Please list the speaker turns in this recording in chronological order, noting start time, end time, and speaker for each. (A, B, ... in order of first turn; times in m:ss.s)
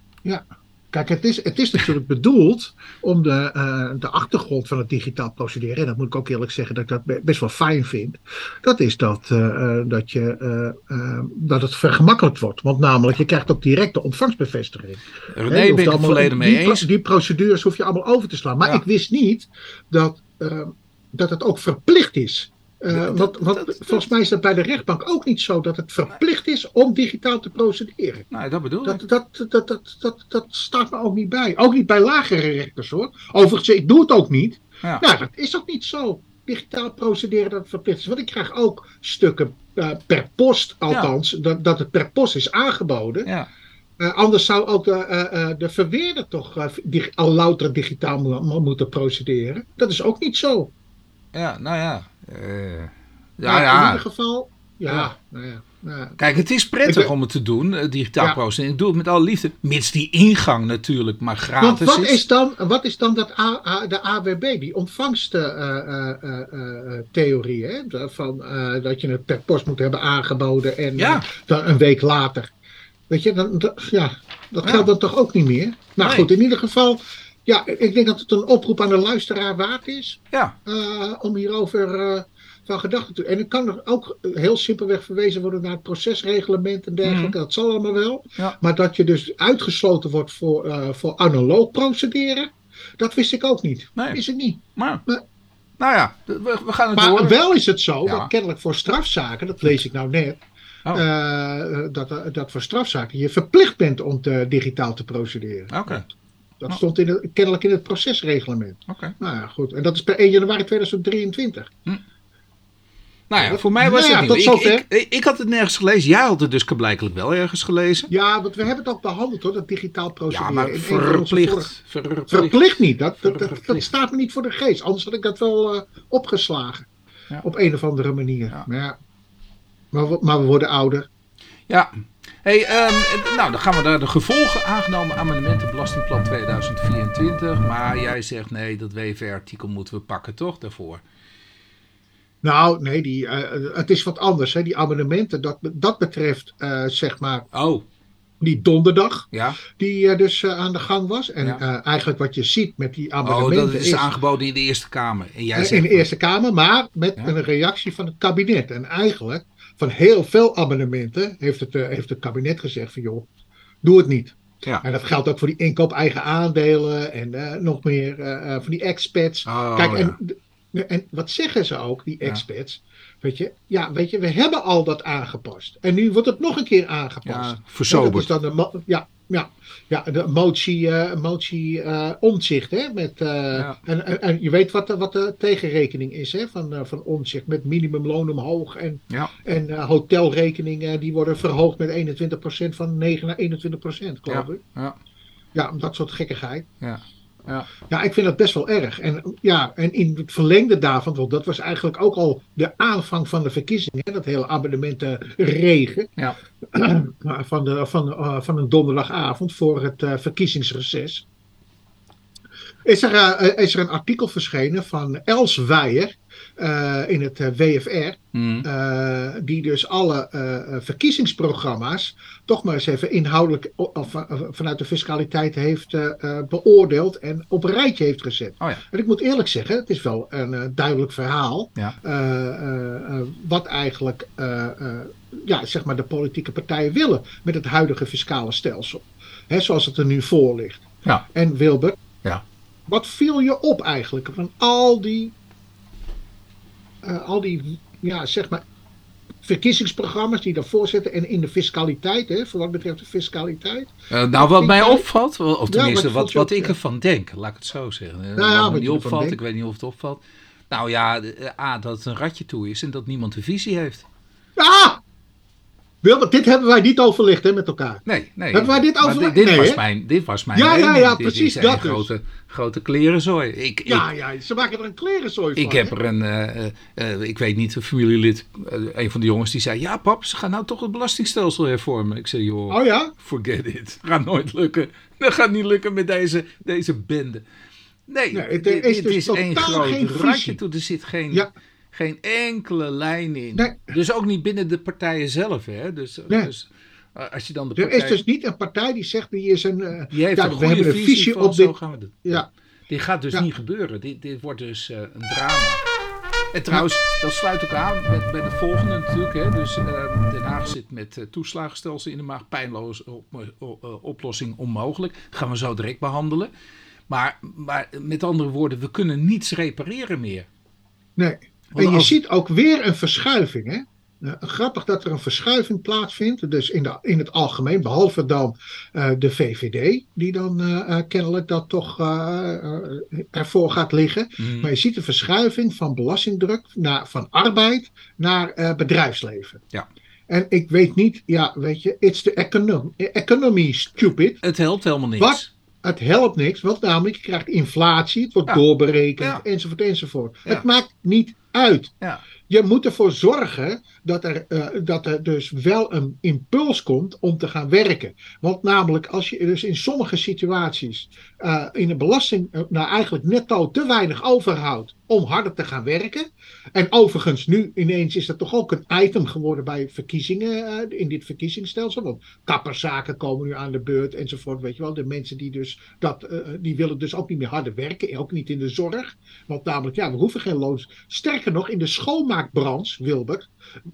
0:00.2-0:28.3 A
0:15.3-0:16.9 B
0:22.9-0:24.1 B
0:28.3-0:29.0 B
0:28.8-0:43.3 A
0:44.0-0:50.7 A
0:51.3-0:54.0 B
0:53.4-0:56.2 A
0:54.9-0:55.1 B
0:56.2-1:02.2 B
0:56.8-0:57.1 A
1:01.6-1:12.5 A
1:11.0-1:11.2 B
1:13.1-1:35.2 A
1:14.6-1:14.9 B
1:16.0-1:16.3 B
1:27.0-1:27.4 B
1:34.0-1:34.2 B
1:34.7-1:35.0 B
1:35.8-1:37.4 B
1:36.9-1:40.4 A
1:38.0-1:38.3 B
1:40.9-1:46.0 A
1:45.7-1:46.0 B
1:46.6-1:51.7 A
1:48.9-1:49.1 B
1:53.3-1:58.1 B
1:53.4-1:54.8 A
1:58.1-2:01.7 A
2:00.3-2:02.6 B
2:02.3-2:06.9 A
2:03.2-2:03.9 B
2:07.4-2:09.0 A
2:09.9-2:11.1 A
2:11.7-2:21.0 B
2:22.4-2:27.5 A
2:27.5-2:27.8 B
2:28.4-2:34.1 A
2:29.3-2:29.6 B
2:33.2-2:36.0 B
2:35.5-2:43.3 A
2:43.8-3:14.6 A
2:49.4-2:50.2 B
2:57.2-2:58.3 B
3:03.5-3:03.8 B
3:14.3-3:15.0 B
3:15.5-3:16.7 A
3:16.8-3:17.7 B
3:17.9-3:26.1 A
3:26.7-3:31.2 A
3:32.8-4:02.0 A
3:38.3-3:38.6 B
4:02.9-4:05.3 A
4:07.0-4:08.6 A
4:09.4-4:15.0 A
4:14.1-4:24.0 B
4:15.7-4:16.7 A
4:18.4-4:19.4 A
4:24.6-4:25.0 A
4:26.0-4:29.8 A
4:28.0-4:34.1 B
4:30.5-4:32.1 A
4:33.8-4:35.9 A
4:35.6-4:47.4 B
4:42.7-4:43.1 A
4:48.1-4:58.2 B
4:48.3-4:50.6 A
4:53.5-4:53.9 A
4:57.8-5:02.5 A
5:00.1-5:05.8 B
5:06.5-5:16.5 B
5:17.1-5:20.5 B
5:21.2-5:39.6 A
5:21.7-5:22.1 B
5:34.4-5:34.7 B
5:40.3-5:44.4 A
5:44.4-5:45.5 B
5:45.2-5:51.9 A
5:52.5-6:23.5 A